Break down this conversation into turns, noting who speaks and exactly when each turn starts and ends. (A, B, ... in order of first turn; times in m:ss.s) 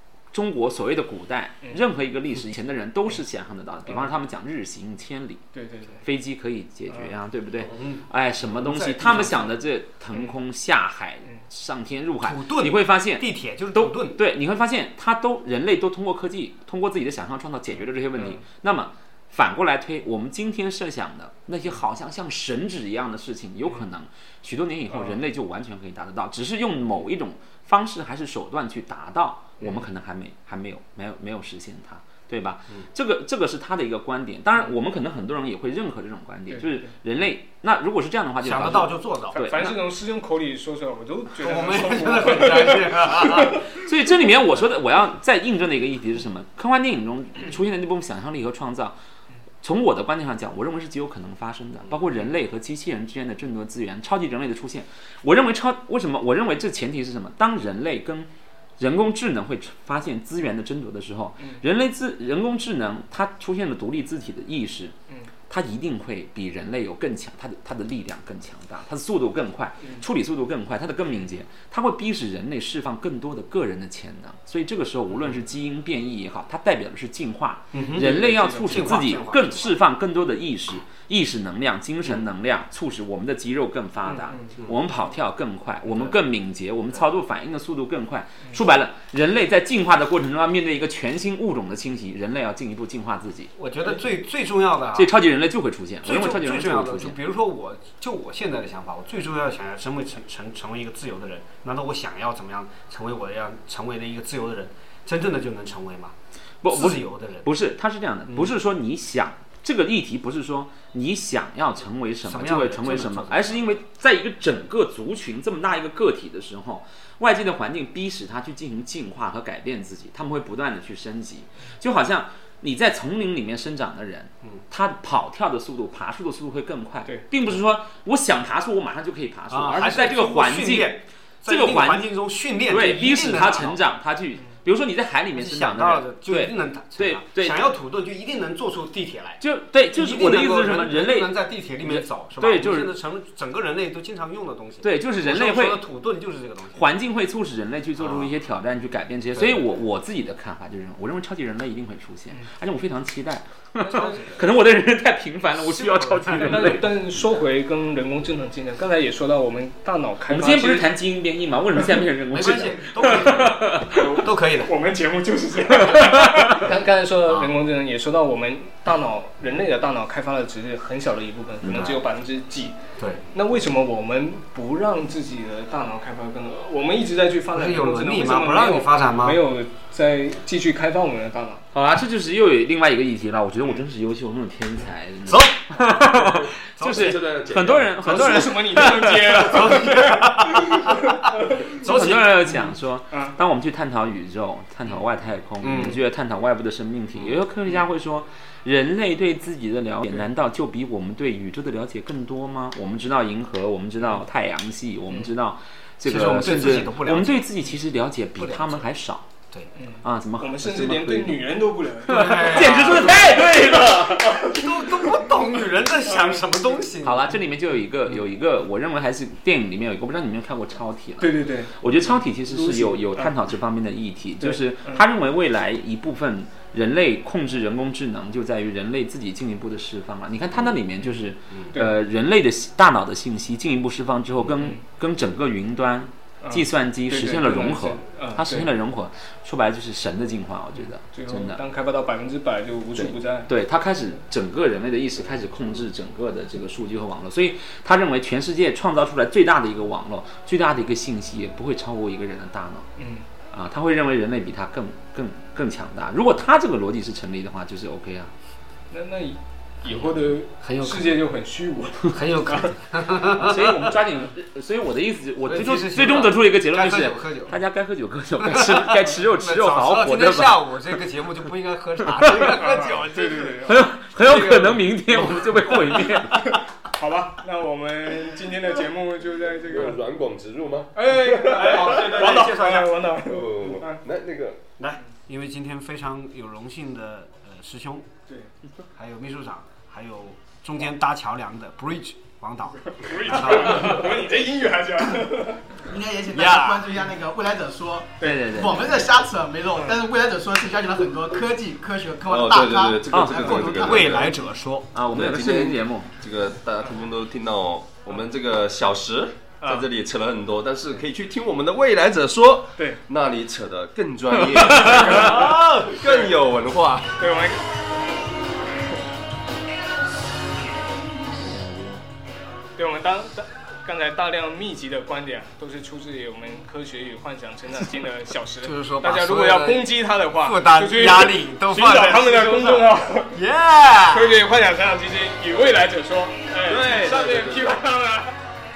0:00.3-0:05.4 A
0:05.5-0:06.0 B
0:06.0-0:39.8 A
0:07.6-0:09.4 C
0:12.2-0:14.2 C
0:18.2-0:18.4 B
0:24.9-0:25.2 B
0:29.6-0:29.8 B
0:36.5-0:36.9 B
0:38.4-0:39.6 C
0:39.5-0:43.7 B
0:41.4-0:43.7 C
0:43.8-0:49.0 A
0:49.6-1:05.0 A
1:05.5-1:33.5 A
1:17.7-1:19.8 C
1:17.9-1:19.1 B
1:24.1-1:24.6 B
1:33.6-1:35.2 C
1:34.9-1:37.2 A
1:36.0-1:46.1 C
1:46.6-2:12.1 A
1:46.7-1:47.5 C
1:52.2-1:53.8 C
2:09.5-2:13.8 C
2:12.7-2:17.6 A
2:15.3-2:19.4 C
2:19.4-2:22.9 A
2:19.9-2:26.8 C
2:24.8-2:25.8 A
2:26.7-2:36.9 A
2:28.0-2:28.3 C
2:29.4-2:29.6 C
2:33.8-2:34.5 C
2:35.5-2:36.8 C
2:36.4-2:40.9 B
2:40.3-2:44.0 A
2:42.3-2:44.8 C
2:43.9-2:52.8 B
2:45.8-2:46.6 A
2:47.3-2:47.5 C
2:51.6-2:52.0 C
2:53.0-2:53.2 C
2:53.3-3:01.7 B
2:57.5-2:59.4 C
3:01.7-3:09.8 A
3:05.3-3:06.1 C
3:06.3-3:08.0 D
3:06.8-3:07.2 C
3:08.0-3:13.4 B
3:08.1-3:08.5 C
3:09.4-3:12.4 C
3:11.8-3:29.3 A
3:15.6-3:16.0 C
3:26.0-3:27.5 C
3:28.4-3:28.9 C
3:29.8-3:35.0 B
3:30.0-3:31.4 A
3:32.1-3:33.4 C
3:32.1-3:34.6 A
3:34.4-3:37.3 C
3:36.1-3:36.4 B
3:37.0-4:01.6 A
3:41.2-3:41.8 B
3:42.5-3:43.3 B
3:44.4-3:45.0 B
3:56.4-3:58.7 B
4:01.0-4:03.5 B
4:03.0-4:12.9 A
4:13.0-4:13.3 B
4:13.5-4:18.3 A
4:18.9-4:22.7 B
4:20.6-4:21.2 C
4:22.1-4:23.9 C
4:23.4-4:30.8 A
4:25.4-4:27.6 C
4:28.4-4:33.7 C
4:32.1-4:32.5 A
4:32.3-4:33.9 B
4:33.6-4:36.6 A
4:34.3-4:35.4 C
4:36.3-4:40.0 B
4:39.6-4:42.0 D
4:41.0-4:44.0 B
4:41.4-4:43.1 C
4:43.2-4:44.7 D
4:44.8-4:48.1 C
4:49.0-4:54.1 C
4:52.9-4:55.8 B
4:55.9-5:04.2 E
4:56.3-4:57.0 C
4:58.2-4:58.5 B
4:58.2-4:59.1 A
4:59.7-5:00.0 B
5:02.3-5:04.4 D
5:03.1-5:03.5 A
5:03.4-5:04.9 C
5:04.9-5:06.1 A
5:05.1-5:17.2 D
5:14.6-5:16.4 B
5:17.2-5:17.7 B
5:21.5-5:22.0 C
5:22.8-5:33.4 B
5:28.6-5:34.4 C
5:34.1-5:38.4 B
5:36.6-5:37.8 D